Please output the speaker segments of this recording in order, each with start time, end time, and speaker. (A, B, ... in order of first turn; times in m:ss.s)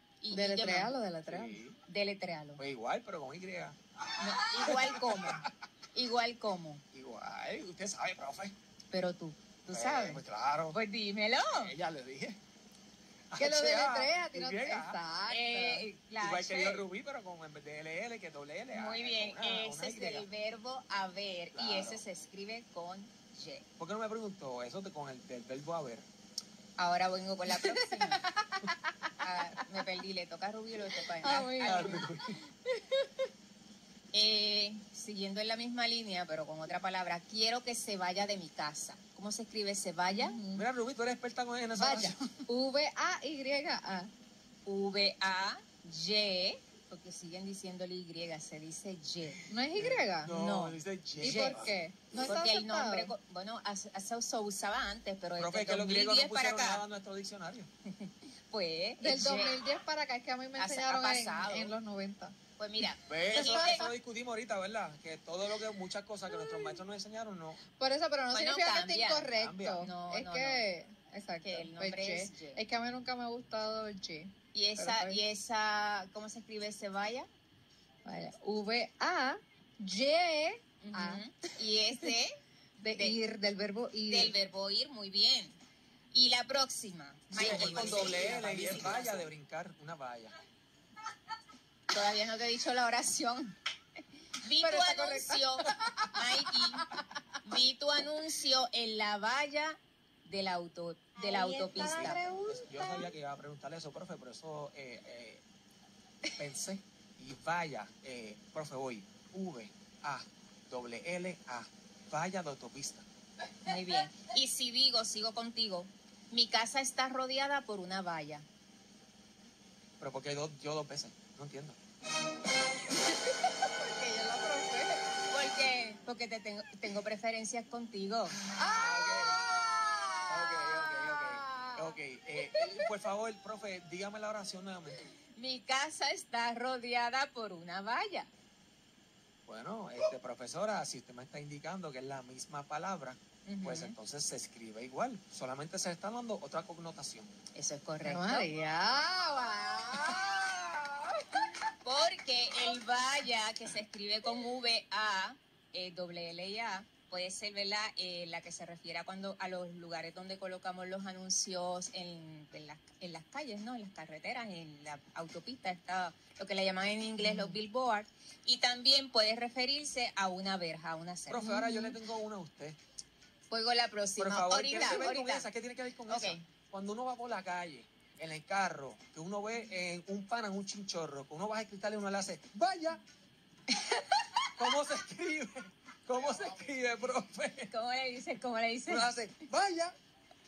0:00.2-0:01.0 A
0:00.3-0:01.6 B
0:01.3-0:01.8 C
0:01.9-0:02.6 A
0:02.6-0:03.8 C
0:04.2-0:06.8 A
0:04.3-0:05.5 C
0:06.9-0:08.6 C
0:08.9-0:11.7 A
0:09.7-0:10.8 C
0:11.5-0:12.4 C
0:13.3-0:15.0 C
0:13.4-0:15.9 B
0:15.3-0:16.9 A
0:16.2-0:20.3 C
0:18.7-0:23.7 A
0:21.6-0:22.0 C
0:23.8-0:26.1 C
0:26.8-0:28.3 A
0:27.5-0:29.2 B
0:29.2-0:32.0 A
0:31.2-0:33.3 B
0:31.6-0:32.4 C
0:34.1-0:40.4 A
0:40.1-0:40.6 B
0:40.5-0:42.3 C
0:41.8-0:44.1 B
0:44.7-0:49.5 A
0:49.5-0:50.4 B
0:49.8-0:51.7 C
0:50.3-0:56.8 A
0:51.2-0:53.1 B
0:55.4-0:57.7 C
0:57.9-0:59.6 A
0:59.0-1:02.4 B
1:00.6-1:01.7 A
1:02.6-1:03.9 A
1:03.1-1:07.6 C
1:03.3-1:03.9 B
1:06.4-1:06.8 B
1:07.8-1:15.2 B
1:08.3-1:10.7 A
1:09.3-1:09.9 C
1:11.4-1:12.6 A
1:14.5-1:17.3 A
1:18.0-1:21.2 B
1:20.8-1:22.4 A
1:22.8-1:24.4 B
1:24.1-1:25.6 A
1:26.1-1:29.3 A
1:27.3-1:30.4 C
1:28.1-1:28.5 B
1:31.9-1:33.6 A
1:34.4-1:36.9 A
1:34.6-1:37.1 B
1:37.4-1:42.2 A
1:41.2-1:43.1 B
1:41.8-1:45.4 C
1:46.4-1:53.0 C
1:53.7-1:58.5 A
2:00.0-2:01.8 C
2:03.0-2:05.1 B
2:05.3-2:08.4 A
2:08.4-2:09.4 C
2:08.5-2:12.7 B
2:10.3-2:15.1 C
2:15.4-2:18.3 A
2:19.5-2:27.3 C
2:23.5-2:24.0 A
2:27.5-2:28.5 A
2:28.0-2:31.6 B
2:31.8-2:51.7 A
2:47.2-2:47.6 B
2:51.3-2:52.8 C
2:51.5-2:51.8 B
2:53.5-2:55.5 A
2:54.2-3:03.0 C
2:56.1-2:56.4 A
3:03.7-3:04.0 A
3:04.6-3:07.7 C
3:07.7-3:09.1 A
3:08.9-3:10.0 C